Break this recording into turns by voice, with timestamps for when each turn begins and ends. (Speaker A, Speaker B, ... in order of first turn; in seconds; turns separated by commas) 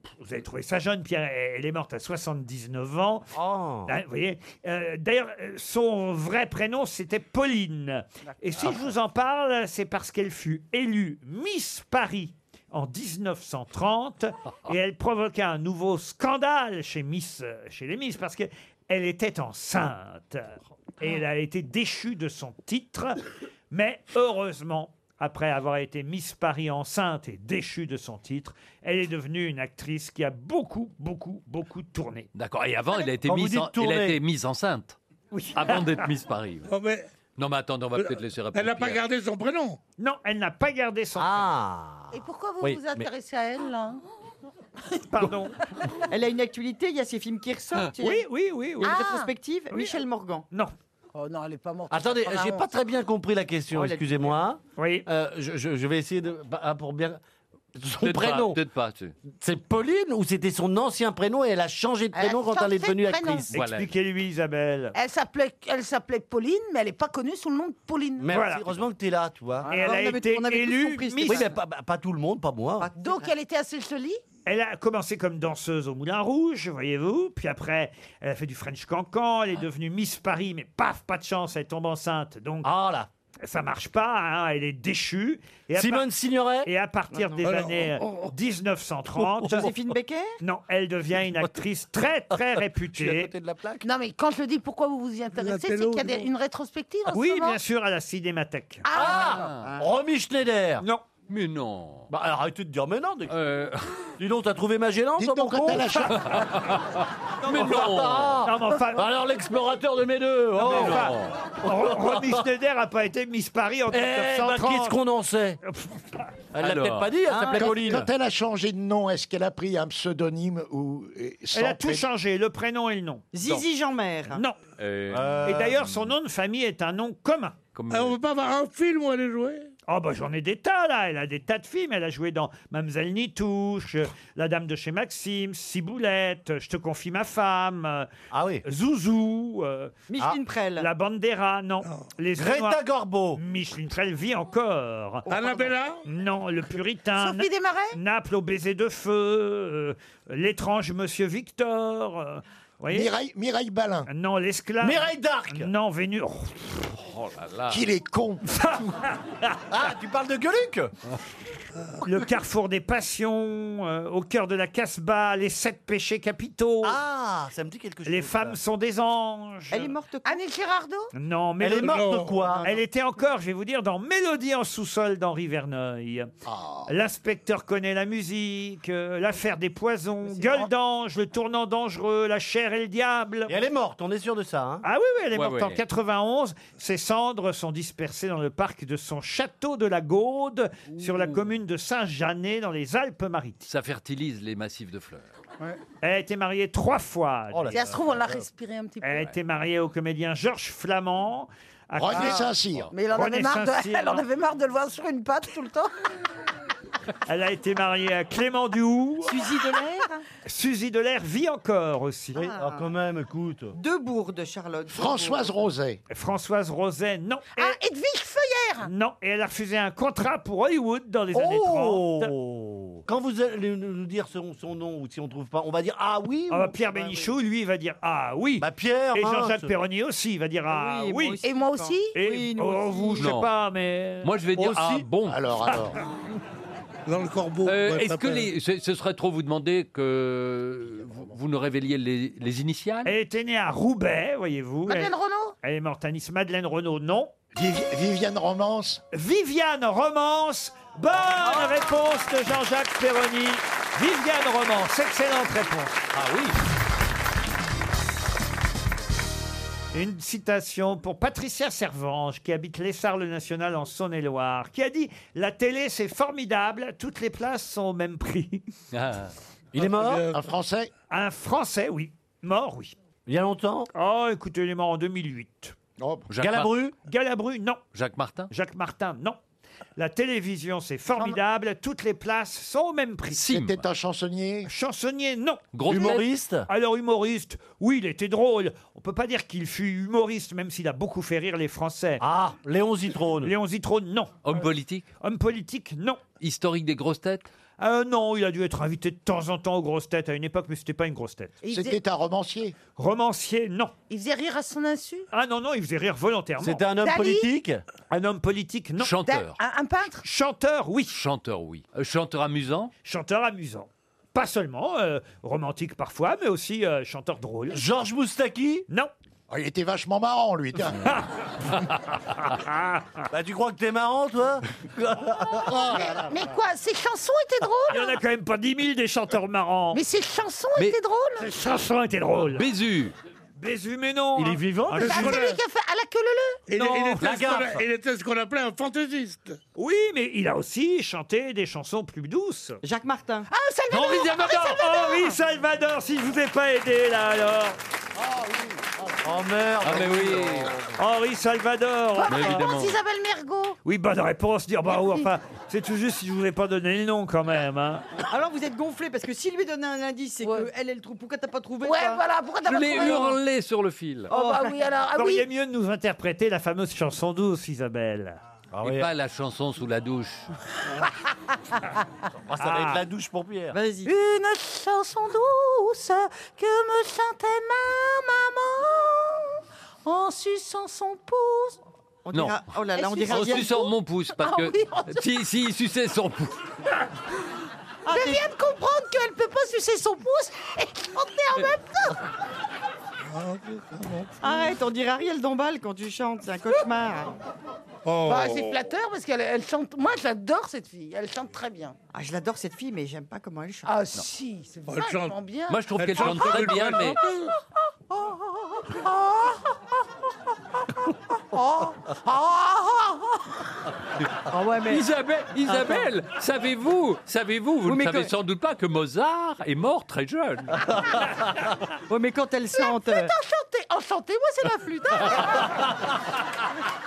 Speaker A: 0.2-3.3, Speaker B: 3.3-3.9, Speaker A: 3.9-23.2, Speaker A: 23.7-32.3, Speaker C: 32.3-35.0, Speaker B: 33.2-34.2, Speaker A: 35.3-36.0, Speaker C: 35.5-36.7, Speaker D: 36.7-37.1, Speaker C: 37.4-39.0, Speaker D: 38.0-39.8, Speaker A: 40.0-41.5, Speaker B: 41.1-43.1, Speaker E: 42.1-44.0, Speaker A: 45.1-45.5, Speaker F: 46.1-48.2, Speaker A: 48.0-49.0, Speaker F: 48.8-50.5, Speaker E: 48.8-49.3, Speaker A: 49.7-50.0, Speaker E: 51.1-52.7, Speaker B: 51.9-57.2, Speaker F: 53.7-54.3, Speaker A: 54.8-55.0, Speaker B: 57.8-58.6, Speaker C: 58.0-59.1, Speaker B: 59.4-63.5, Speaker E: 62.1-63.5, Speaker C: 63.5-63.9, Speaker A: 63.5-65.0, Speaker E: 64.9-68.3, Speaker B: 68.2-69.7, Speaker A: 68.3-68.7, Speaker F: 69.7-71.5, Speaker A: 69.7-71.5, Speaker B: 71.2-72.9, Speaker F: 72.8-73.3, Speaker E: 72.9-74.2, Speaker A: 74.5-82.7, Speaker B: 82.6-83.1, Speaker A: 83.4-86.1, Speaker B: 85.8-86.7, Speaker A: 86.7-89.7, Speaker F: 87.1-87.4, Speaker D: 87.4-88.3, Speaker B: 89.2-89.7, Speaker F: 89.5-90.4, Speaker A: 90.4-93.3, Speaker B: 91.2-91.5, Speaker B: 92.3-93.8, Speaker E: 93.8-97.6, Speaker D: 95.3-96.3, Speaker A: 97.1-98.8, Speaker E: 98.8-99.5, Speaker B: 98.9-100.8, Speaker C: 99.3-99.6, Speaker C: 101.3-102.1, Speaker B: 102.1-103.3, Speaker C: 103.3-103.9, Speaker B: 104.2-106.1, Speaker G: 105.2-106.4, Speaker C: 106.1-108.5, Speaker B: 107.4-112.4, Speaker A: 108.4-109.1, Speaker A: 110.6-115.0, Speaker C: 110.6-111.4, Speaker B: 113.9-115.6, Speaker A: 115.7-116.0, Speaker B: 116.5-118.1, Speaker C: 116.6-117.1, Speaker F: 117.3-117.7, Speaker G: 117.5-122.0, Speaker A: 121.5-123.6, Speaker F: 123.3-124.4, Speaker C: 124.8-125.9, Speaker B: 125.1-125.8, Speaker A: 125.4-127.6, Speaker C: 127.7-128.2, Speaker D: 127.9-129.7, Speaker A: 129.9-138.1, Speaker B: 138.3-138.6, Speaker A: 138.7-140.0, Speaker F: 140.1-140.9, Speaker A: 140.8-142.8, Speaker D: 141.8-142.1, Speaker B: 142.3-143.4, Speaker A: 143.3-145.3, Speaker D: 145.3-146.0, Speaker A: 146.0-153.1, Speaker E: 147.2-148.0, Speaker G: 152.9-154.1, Speaker A: 154.1-156.8, Speaker B: 154.8-155.7, Speaker C: 156.9-157.8, Speaker G: 157.7-158.4, Speaker A: 158.6-159.6, Speaker B: 159.7-160.9, Speaker A: 162.0-167.0, Speaker B: 166.8-168.6, Speaker A: 168.1-169.9, Speaker F: 169.7-170.4, Speaker E: 170.2-171.1, Speaker A: 171.1-172.1, Speaker B: 171.6-172.7, Speaker D: 171.8-172.5, Speaker F: 172.4-172.8, Speaker A: 172.6-176.3, Speaker G: 176.4-176.9, Speaker A: 176.9-183.6, Speaker E: 180.4-180.7, Speaker B: 183.5-184.8, Speaker A: 184.8-193.6, Speaker C: 185.3-185.8, Speaker B: 191.0-191.3, Speaker C: 193.7-195.2, Speaker A: 196.0-197.8, Speaker B: 197.5-198.4, Speaker E: 197.7-199.3, Speaker A: 199.0-202.5, Speaker G: 201.9-202.9, Speaker E: 202.1-202.4, Speaker E: 202.9-205.9, Speaker A: 203.1-204.2, Speaker A: 207.3-209.5, Speaker F: 209.2-210.1, Speaker A: 210.4-212.4, Speaker B: 212.3-213.7, Speaker F: 212.3-212.9, Speaker F: 213.7-215.5, Speaker G: 214.9-216.0, Speaker A: 216.1-217.8, Speaker E: 217.5-218.9, Speaker A: 218.8-222.3, Speaker B: 221.3-227.3, Speaker A: 226.5-231.4, Speaker B: 228.6-229.7, Speaker F: 230.7-233.3, Speaker E: 231.4-232.2, Speaker A: 232.1-234.3, Speaker C: 233.2-233.5, Speaker C: 234.2-235.8, Speaker B: 234.6-235.1, Speaker G: 235.3-236.0, Speaker D: 237.1-238.5, Speaker C: 237.6-243.1, Speaker A: 243.1-247.3, Speaker E: 244.8-245.5, Speaker G: 247.5-249.0, Speaker A: 249.1-256.1, Speaker C: 256.1-256.5, Speaker A: 259.9-268.6, Speaker C: 268.9-269.3, Speaker B: 269.7-270.2, Speaker D: 269.8-270.5, Speaker G: 270.2-270.9, Speaker A: 271.1-272.9, Speaker B: 273.2-273.9, Speaker A: 273.9-275.8, Speaker G: 276.0-276.3, Speaker C: 276.3-276.7, Speaker B: 276.4-276.9, Speaker A: 277.1-277.8, Speaker C: 277.9-278.5, Speaker A: 278.5-279.4, Speaker A: 279.9-283.5, Speaker C: 283.3-283.8, Speaker G: 283.4-284.7, Speaker A: 284.7-292.2, Speaker C: 285.7-286.2, Speaker B: 285.9-286.7, Speaker B: 292.2-293.5, Speaker A: 293.4-294.6, Speaker C: 294.4-295.1, Speaker A: 295.2-296.2, Speaker C: 296.4-297.5, Speaker A: 297.8-301.6, Speaker E: 301.6-302.0, Speaker G: 301.7-302.7, Speaker A: 303.0-303.9, Speaker E: 304.1-305.3, Speaker A: 305.3-306.9, Speaker B: 306.6-307.8, Speaker E: 307.0-307.5, Speaker A: 308.1-309.1, Speaker C: 309.0-309.6, Speaker E: 309.2-310.2, Speaker A: 310.2-311.1, Speaker C: 311.1-312.9, Speaker A: 313.0-317.8, Speaker B: 317.7-318.9, Speaker G: 319.5-321.1, Speaker A: 322.5-323.2, Speaker B: 323.3-326.2, Speaker E: 325.9-328.2, Speaker A: 327.9-330.0, Speaker E: 329.9-331.5, Speaker A: 331.4-332.7, Speaker C: 332.4-333.1, Speaker A: 333.6-335.5, Speaker B: 334.4-335.3, Speaker E: 335.0-336.6, Speaker D: 335.0-335.6, Speaker D: 336.7-339.6, Speaker A: 336.7-337.2, Speaker B: 337.2-337.8, Speaker A: 339.8-342.8, Speaker F: 342.8-343.5, Speaker E: 343.5-345.4, Speaker A: 343.9-347.8, Speaker B: 349.2-350.9, Speaker C: 349.8-350.7, Speaker A: 351.0-352.7, Speaker E: 352.2-353.8, Speaker C: 352.3-352.9, Speaker A: 353.8-358.1, Speaker E: 354.9-355.2, Speaker F: 358.3-362.2, Speaker E: 360.4-360.7, Speaker E: 361.8-363.4, Speaker C: 362.6-364.3, Speaker E: 364.3-365.4, Speaker F: 364.3-364.8, Speaker A: 365.1-368.4, Speaker B: 368.7-369.1, Speaker C: 368.8-370.5, Speaker B: 372.5-373.8, Speaker A: 372.6-373.0, Speaker F: 373.7-374.1, Speaker E: 374.0-381.8, Speaker F: 382.2-383.7, Speaker E: 382.9-385.3, Speaker C: 383.3-386.6, Speaker F: 388.1-388.4, Speaker E: 388.1-392.2, Speaker D: 393.2-394.5, Speaker F: 394.4-397.3, Speaker D: 398.0-398.7, Speaker E: 398.2-401.9, Speaker F: 402.1-403.9, Speaker E: 403.8-407.5, Speaker D: 404.9-405.4, Speaker C: 405.7-407.2, Speaker D: 405.9-407.2, Speaker E: 408.1-409.7, Speaker E: 411.1-413.6, Speaker F: 414.5-415.0, Speaker C: 414.9-420.9, Speaker F: 415.7-416.0, Speaker F: 417.9-418.3, Speaker F: 422.1-423.3, Speaker E: 422.8-425.8